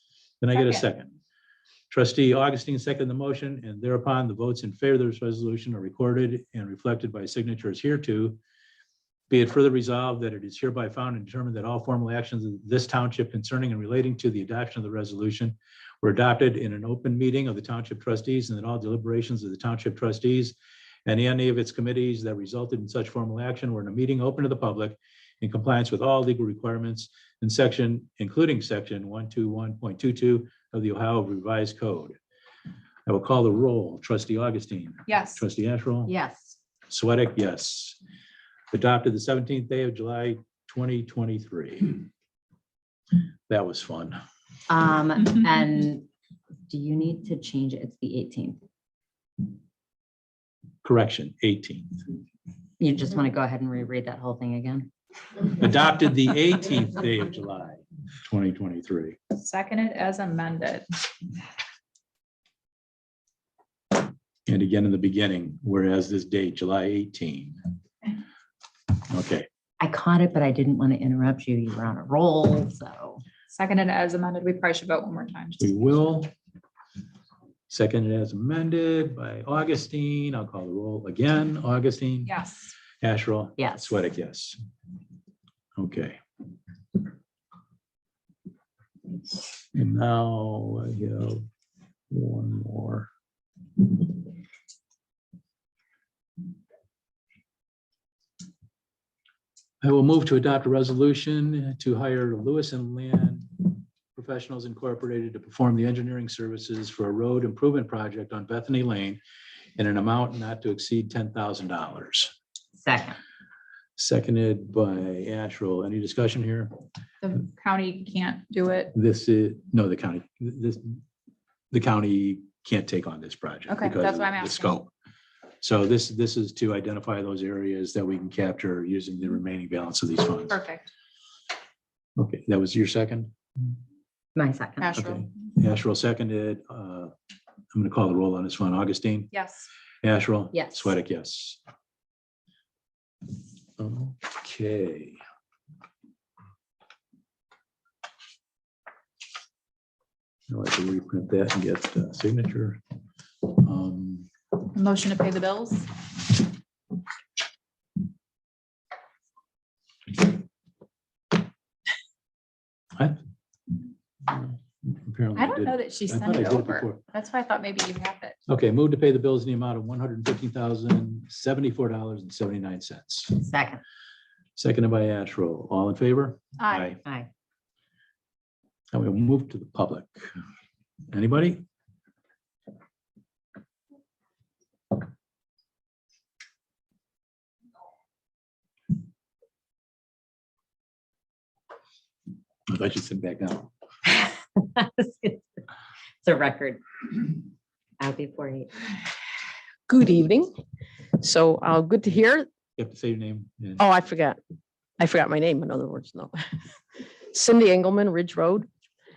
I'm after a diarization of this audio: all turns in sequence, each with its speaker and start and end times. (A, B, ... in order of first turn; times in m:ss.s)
0:00.4-0:01.2 A
0:00.6-0:00.8 B
0:01.9-0:08.4 A
0:09.3-0:32.2 A
0:33.1-0:36.1 A
0:35.1-0:35.4 B
0:36.1-0:36.6 C
0:36.9-0:38.0 A
0:38.7-0:42.0 A
0:43.5-0:44.2 A
0:44.7-0:46.1 C
0:46.7-0:48.6 C
0:50.8-0:52.0 A
0:52.8-0:54.9 C
0:55.5-0:59.2 A
0:59.4-1:00.9 B
1:04.5-1:07.6 A
1:09.1-1:09.5 A
1:09.8-1:13.2 C
1:13.5-1:15.8 B
1:15.6-1:16.3 A
1:17.7-1:22.3 A
1:22.3-1:22.7 B
1:23.0-1:24.6 A
1:23.6-1:23.9 C
1:25.8-1:26.2 A
1:29.6-1:31.5 A
1:32.1-1:33.1 A
1:39.8-1:49.2 A
1:49.8-1:52.3 A
1:52.8-1:53.2 C
1:54.0-1:56.7 A
1:57.2-1:58.9 B
1:58.9-2:01.0 A
2:01.7-2:04.9 A
2:03.7-2:04.8 B
2:05.6-2:10.6 A
2:10.5-2:10.9 B
2:12.2-2:13.3 A
2:14.4-2:14.9 C
2:14.8-2:15.2 B
2:15.0-2:17.1 A
2:17.7-2:19.3 A
2:19.3-2:19.7 B
2:20.0-2:21.6 A
2:20.5-2:20.9 C
2:23.8-2:25.2 A
2:30.5-2:32.8 A
2:33.5-2:34.3 A
2:34.7-2:35.9 B
2:44.3-2:47.0 A
2:45.4-2:48.4 B
2:48.5-2:53.4 A
2:53.4-2:53.8 C
2:54.6-2:57.0 A
2:56.6-2:57.0 B
2:57.0-2:57.3 C
2:58.9-3:00.3 A
3:01.1-3:01.6 A
3:12.7-3:13.7 A
3:14.1-3:15.5 C
3:16.2-3:17.4 C
3:18.0-3:18.9 C
3:19.9-3:20.5 D
3:21.2-3:22.5 D
3:22.8-3:23.8 A
3:23.8-3:24.4 D
3:25.0-3:26.4 D
3:27.3-3:28.7 D